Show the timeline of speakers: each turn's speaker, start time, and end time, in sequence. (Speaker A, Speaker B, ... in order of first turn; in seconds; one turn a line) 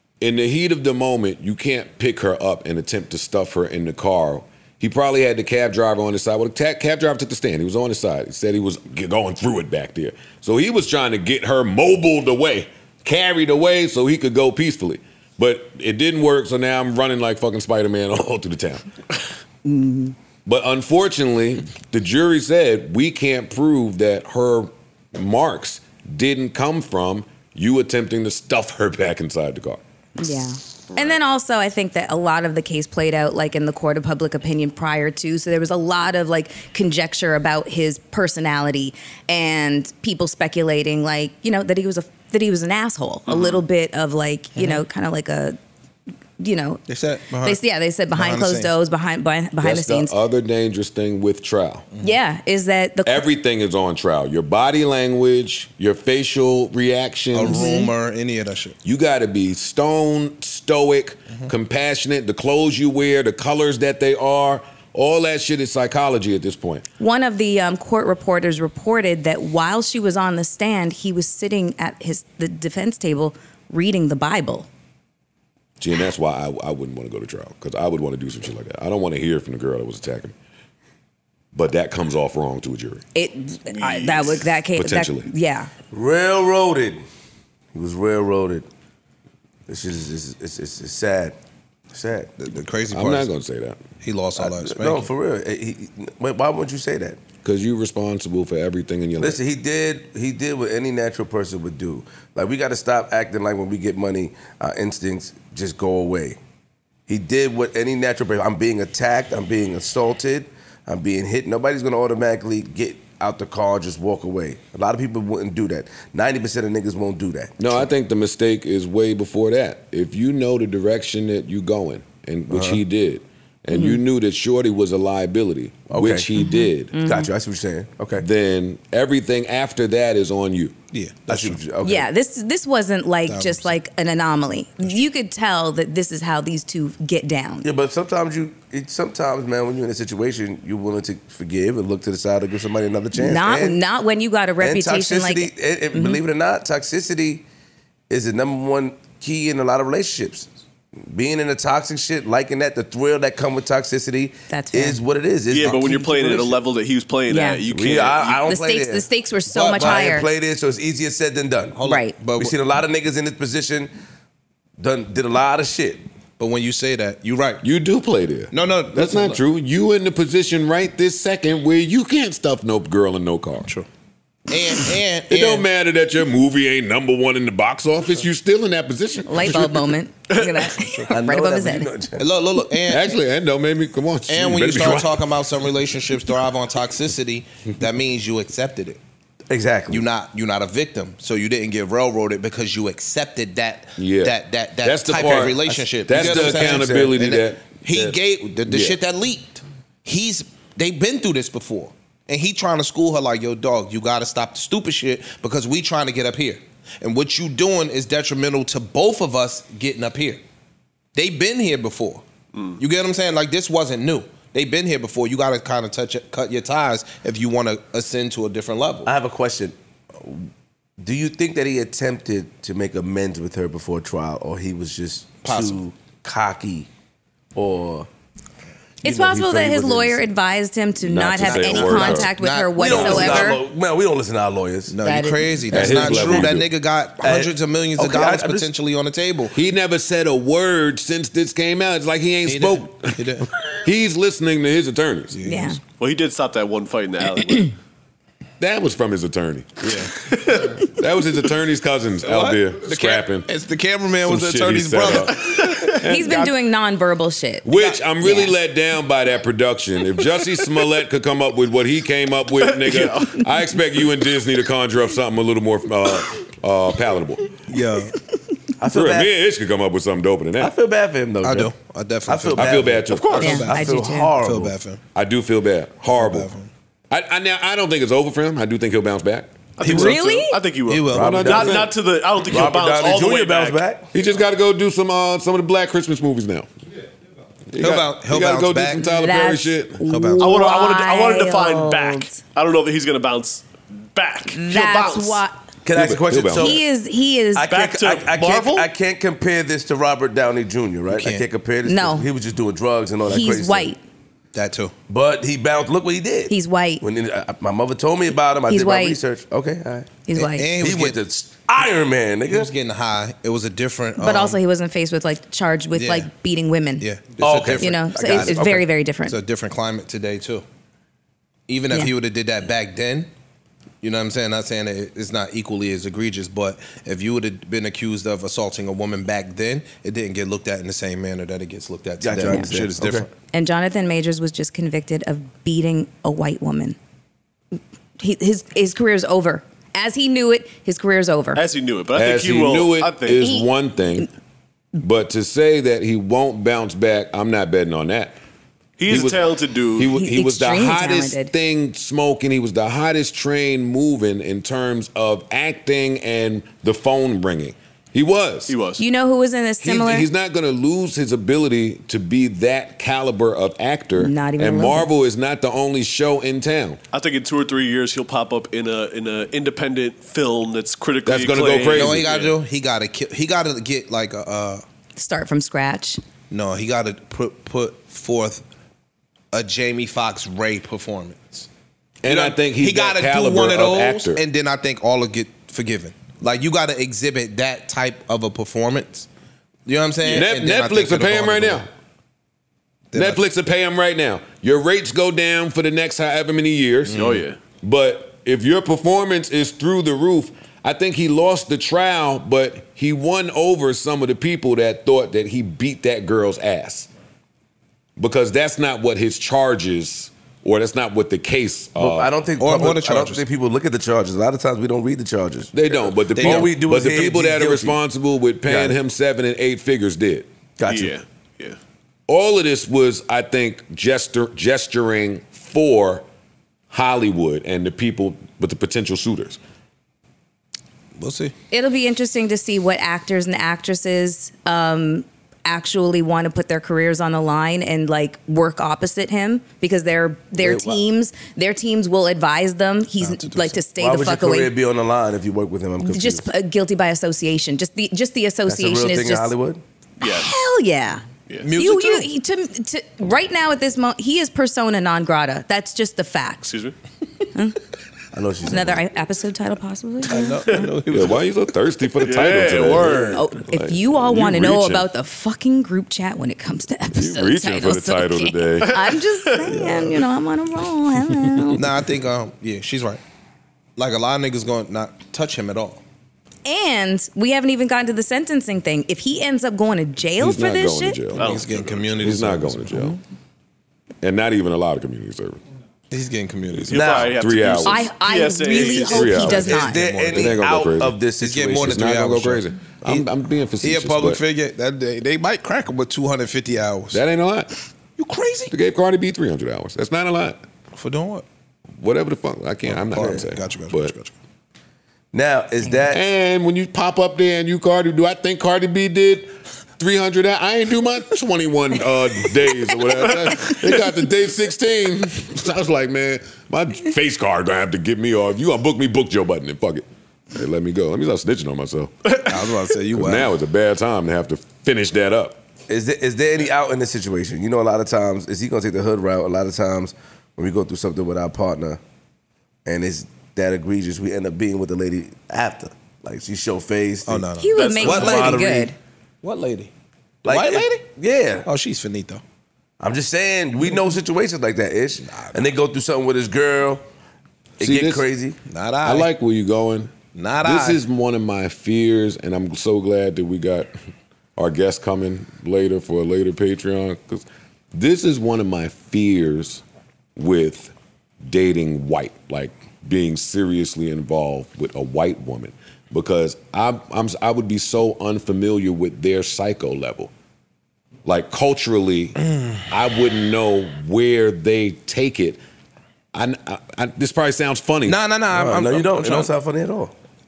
Speaker A: 0.2-18.9
Speaker B: 19.6-20.1
Speaker A: 20.4-29.8
Speaker B: 30.2-45.6
Speaker C: 43.3-43.6
Speaker B: 46.4-46.8
Speaker D: 46.9-47.6
Speaker B: 47.4-50.1
Speaker D: 48.1-48.7
Speaker A: 49.6-51.9
Speaker B: 52.0-53.2
Speaker A: 53.0-57.8
Speaker D: 57.3-58.8
Speaker B: 57.5-57.9
Speaker A: 58.8-66.8
Speaker B: 67.0-74.7
Speaker A: 75.8-80.3
Speaker A: 81.5-83.0
Speaker B: 83.1-85.7
Speaker C: 83.7-84.4
Speaker A: 84.7-85.3
Speaker E: 85.9-87.0
Speaker E: 87.7-88.7
Speaker E: 89.7-91.3
Speaker E: 91.9-92.3
Speaker D: 92.4-93.3
Speaker A: 92.9-93.8
Speaker D: 94.0-95.1
Speaker E: 94.4-97.2
Speaker A: 97.4-99.4
Speaker E: 99.2-106.4
Speaker E: 107.1-117.6
Speaker A: 117.6-126.9
Speaker E: 122.5-122.8
Speaker B: 123.7-124.0
Speaker E: 125.9-126.3
Speaker B: 126.4-127.3
Speaker E: 127.0-128.2
Speaker A: 128.2-130.8
Speaker D: 130.9-131.6
Speaker E: 131.3-132.1
Speaker B: 131.8-137.7
Speaker D: 133.3-133.7
Speaker E: 137.6-143.8
Speaker B: 143.1-146.2
Speaker E: 144.6-147.4
Speaker E: 148.1-156.0
Speaker B: 154.5-155.0
Speaker C: 155.5-158.4
Speaker D: 155.6-156.6
Speaker B: 157.3-157.6
Speaker E: 157.7-161.8
Speaker B: 158.4-160.3
Speaker D: 161.8-162.6
Speaker B: 161.8-162.2
Speaker E: 162.4-163.9
Speaker E: 164.8-166.0
Speaker D: 166.4-167.6
Speaker A: 167.6-173.7
Speaker D: 168.5-169.4
Speaker D: 174.5-175.7
Speaker A: 175.3-179.9
Speaker B: 179.3-181.9
Speaker C: 180.3-180.7
Speaker E: 181.1-182.3
Speaker D: 182.2-183.2
Speaker A: 182.8-185.4
Speaker D: 184.3-189.0
Speaker E: 189.5-190.0
Speaker D: 189.9-210.4
Speaker A: 194.0-199.0
Speaker E: 195.7-197.2
Speaker D: 211.1-212.2
Speaker D: 212.8-219.1
Speaker E: 219.0-220.4
Speaker E: 221.0-226.9
Speaker D: 225.4-225.8
Speaker E: 227.5-228.1
Speaker E: 229.0-230.2
Speaker B: 229.0-233.6
Speaker A: 231.0-232.3
Speaker D: 231.4-233.6
Speaker E: 232.8-234.9
Speaker A: 232.9-233.4
Speaker D: 234.9-239.6
Speaker B: 235.0-236.4
Speaker A: 235.7-236.7
Speaker E: 237.2-238.7
Speaker A: 239.5-243.2
Speaker D: 242.4-243.5
Speaker A: 243.8-245.4
Speaker D: 245.3-245.8
Speaker B: 245.4-245.8
Speaker C: 246.0-247.7
Speaker A: 248.6-250.0
Speaker D: 249.8-250.2
Speaker C: 250.4-250.7
Speaker A: 250.9-253.5
Speaker D: 252.2-256.5
Speaker A: 254.2-256.5
Speaker C: 255.3-255.9
Speaker B: 256.0-257.6
Speaker A: 257.6-267.5
Speaker D: 257.7-258.0
Speaker C: 262.7-263.5
Speaker D: 267.7-268.2
Speaker E: 268.8-269.3
Speaker A: 268.9-270.7
Speaker E: 270.6-271.7
Speaker D: 271.4-275.0
Speaker E: 272.2-274.8
Speaker A: 272.6-273.7
Speaker C: 273.1-273.6
Speaker B: 273.4-274.3
Speaker A: 275.1-276.5
Speaker D: 276.1-276.7
Speaker A: 277.1-280.1
Speaker C: 279.8-283.8
Speaker B: 279.8-280.6
Speaker D: 279.8-280.1
Speaker D: 280.9-281.5
Speaker E: 281.1-281.8
Speaker A: 281.1-281.9
Speaker E: 282.4-284.1
Speaker A: 284.1-286.7
Speaker A: 287.7-290.0
Speaker D: 287.8-289.1
Speaker B: 289.0-292.4
Speaker D: 290.0-290.5
Speaker C: 290.4-295.4
Speaker B: 294.5-295.6
Speaker E: 295.8-296.8
Speaker A: 295.9-296.8
Speaker B: 296.5-297.7
Speaker E: 297.5-303.9
Speaker C: 297.6-298.9
Speaker D: 301.1-301.4
Speaker B: 301.8-302.3
Speaker B: 303.3-304.0
Speaker D: 304.5-304.9
Speaker E: 305.1-310.1
Speaker B: 306.5-307.0
Speaker B: 308.7-309.2
Speaker B: 310.3-310.7
Speaker D: 310.3-311.2
Speaker E: 310.8-312.7
Speaker D: 312.5-314.6
Speaker B: 314.2-317.1
Speaker D: 315.9-316.3
Speaker D: 317.0-318.6
Speaker E: 317.4-318.8
Speaker B: 317.8-319.4
Speaker D: 319.2-320.6
Speaker D: 321.7-323.3
Speaker D: 324.0-333.3
Speaker E: 332.2-333.3
Speaker B: 333.5-337.0
Speaker B: 338.2-341.6
Speaker C: 341.5-343.5
Speaker A: 342.1-344.3
Speaker A: 345.0-348.4
Speaker C: 349.0-350.2
Speaker A: 349.1-349.4
Speaker A: 349.9-358.7
Speaker B: 350.1-351.5
Speaker C: 358.7-359.0
Speaker B: 359.0-360.3
Speaker A: 359.8-367.0
Speaker B: 364.2-365.1
Speaker C: 367.1-372.6
Speaker A: 371.2-372.3
Speaker D: 371.9-374.8
Speaker B: 375.2-376.2
Speaker D: 376.5-378.6
Speaker D: 379.5-381.7
Speaker A: 382.2-384.4
Speaker D: 382.2-389.3
Speaker D: 389.9-391.9
Speaker A: 390.2-391.9
Speaker D: 393.1-393.4
Speaker A: 393.1-407.1
Speaker D: 397.1-397.4
Speaker C: 397.1-397.6
Speaker A: 408.2-412.3
Speaker E: 412.0-418.0
Speaker D: 412.6-413.4
Speaker A: 415.7-420.5
Speaker D: 416.4-416.7
Speaker E: 418.7-418.9
Speaker E: 420.8-421.1
Speaker C: 420.9-421.8
Speaker A: 422.3-426.2
Speaker A: 426.9-429.6
Speaker D: 431.2-431.5
Speaker B: 431.7-444.7
Speaker E: 440.6-441.0
Speaker D: 443.2-443.8
Speaker E: 444.0-446.4
Speaker B: 446.1-449.5
Speaker E: 448.7-449.8
Speaker B: 450.2-451.2
Speaker C: 450.2-450.5
Speaker D: 451.6-452.3
Speaker B: 451.8-456.7
Speaker C: 456.7-456.9
Speaker E: 458.3-459.0
Speaker B: 458.6-460.8
Speaker D: 460.2-461.6
Speaker A: 461.1-465.1
Speaker C: 462.2-463.4
Speaker B: 463.3-471.8
Speaker A: 467.1-469.0
Speaker C: 468.8-469.6
Speaker D: 471.7-473.2
Speaker D: 474.0-476.0
Speaker B: 476.6-481.2
Speaker A: 480.4-483.2
Speaker D: 481.4-483.2
Speaker C: 481.4-482.0
Speaker A: 484.2-485.6
Speaker D: 486.1-487.3
Speaker C: 486.9-489.4
Speaker E: 486.9-487.3
Speaker A: 487.3-488.1
Speaker B: 487.8-490.1
Speaker E: 488.7-491.9
Speaker A: 489.0-491.2
Speaker D: 491.4-493.2
Speaker A: 491.7-494.4
Speaker D: 493.8-497.2
Speaker A: 497.1-497.7
Speaker D: 498.2-498.7
Speaker A: 498.7-500.6
Speaker D: 500.9-501.4
Speaker A: 502.0-504.1
Speaker D: 502.9-504.3
Speaker E: 505.3-506.2
Speaker A: 506.1-522.1
Speaker D: 522.5-523.5
Speaker A: 523.1-525.6
Speaker E: 525.9-532.0
Speaker E: 532.9-537.5
Speaker D: 537.2-539.9
Speaker B: 537.6-539.0
Speaker C: 537.7-538.8
Speaker E: 540.4-541.7
Speaker D: 540.5-541.1
Speaker D: 541.6-542.4
Speaker E: 543.0-547.0
Speaker D: 545.3-545.7
Speaker A: 547.8-548.2
Speaker E: 547.8-548.6
Speaker D: 548.7-549.3
Speaker A: 549.0-553.9
Speaker D: 550.3-551.0
Speaker A: 554.5-559.8
Speaker A: 560.4-570.3
Speaker A: 571.2-572.4
Speaker A: 572.9-575.6
Speaker A: 576.3-578.2
Speaker D: 578.0-579.5
Speaker E: 578.5-580.1